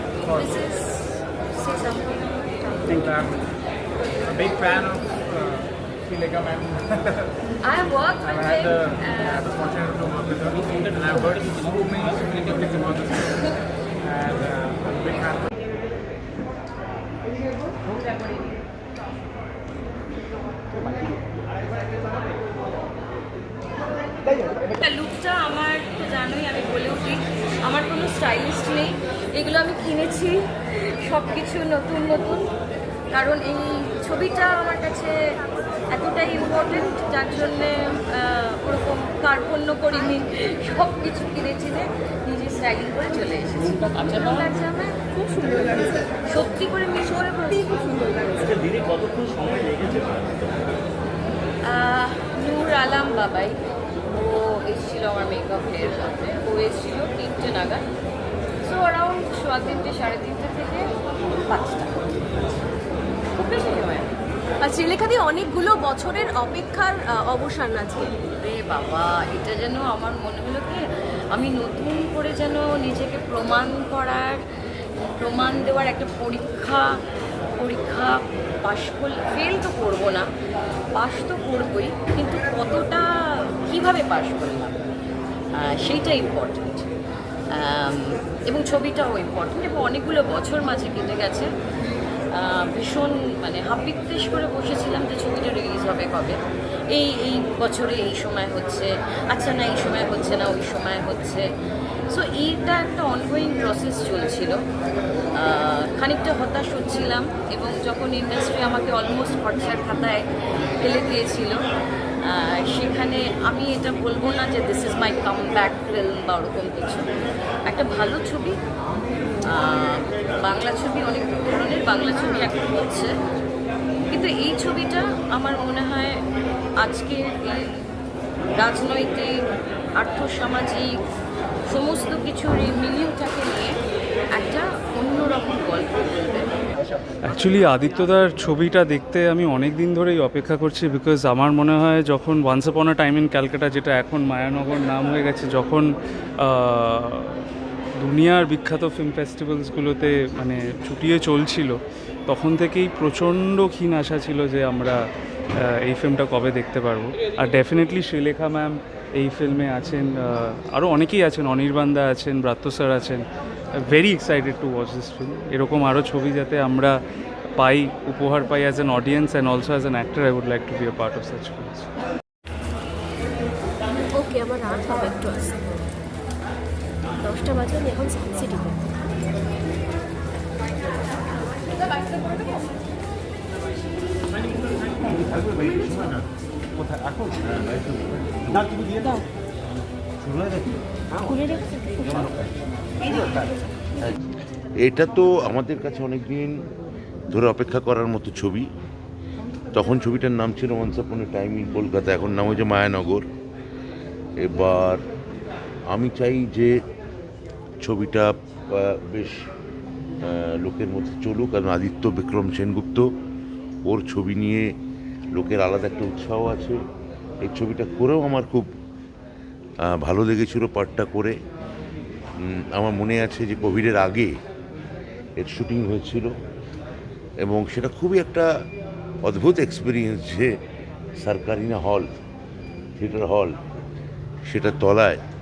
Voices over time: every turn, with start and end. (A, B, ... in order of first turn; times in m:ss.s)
0:00.2-0:03.0 A
0:02.9-0:03.4 B
0:04.3-0:06.8 B
0:07.6-0:09.6 A
0:08.2-0:13.5 B
0:14.0-0:15.4 B
0:24.6-0:32.5 A
0:33.1-0:35.1 A
0:35.9-0:48.6 A
0:49.3-0:50.2 C
0:51.6-0:57.8 A
0:58.6-1:00.9 A
1:01.5-1:02.1 A
1:03.3-1:04.1 A
1:04.6-1:08.1 D
1:08.4-1:14.4 A
1:15.0-1:16.9 A
1:17.6-1:20.2 A
1:20.9-1:24.8 A
1:25.6-1:26.9 A
1:27.5-1:31.5 A
1:32.3-1:36.4 A
1:36.9-1:41.4 A
1:42.1-1:44.6 A
1:45.3-1:50.2 A
1:50.8-1:51.6 A
1:52.2-1:57.0 A
1:57.6-1:58.5 A
1:59.4-2:03.1 A
2:04.1-2:06.2 A
2:06.8-2:07.7 A
2:08.5-2:09.3 A
2:10.0-2:10.9 A
2:11.7-2:13.8 A
2:14.3-2:16.5 A
2:17.3-2:25.9 E
2:26.4-2:27.4 E
2:28.0-2:35.0 E
2:35.6-2:43.2 E
2:43.8-2:46.9 E
2:47.6-2:51.9 E
2:54.1-2:55.6 D
2:57.2-2:58.8 D
3:05.1-3:06.1 C
3:08.6-3:09.1 C
3:14.8-3:16.5 F
3:17.3-3:18.6 F
3:19.7-3:23.2 F
3:24.4-3:25.0 F
3:25.9-3:26.7 F
3:27.8-3:29.4 F
3:30.2-3:33.1 F
3:33.8-3:34.7 F
3:35.3-3:36.8 F
3:37.4-3:38.7 F
3:39.8-3:41.3 F
3:42.4-3:44.3 F
3:45.4-3:46.3 F
3:47.4-3:48.5 F
3:49.2-3:50.5 F
3:51.2-3:52.1 F
3:53.0-3:53.6 F
3:54.5-3:55.2 F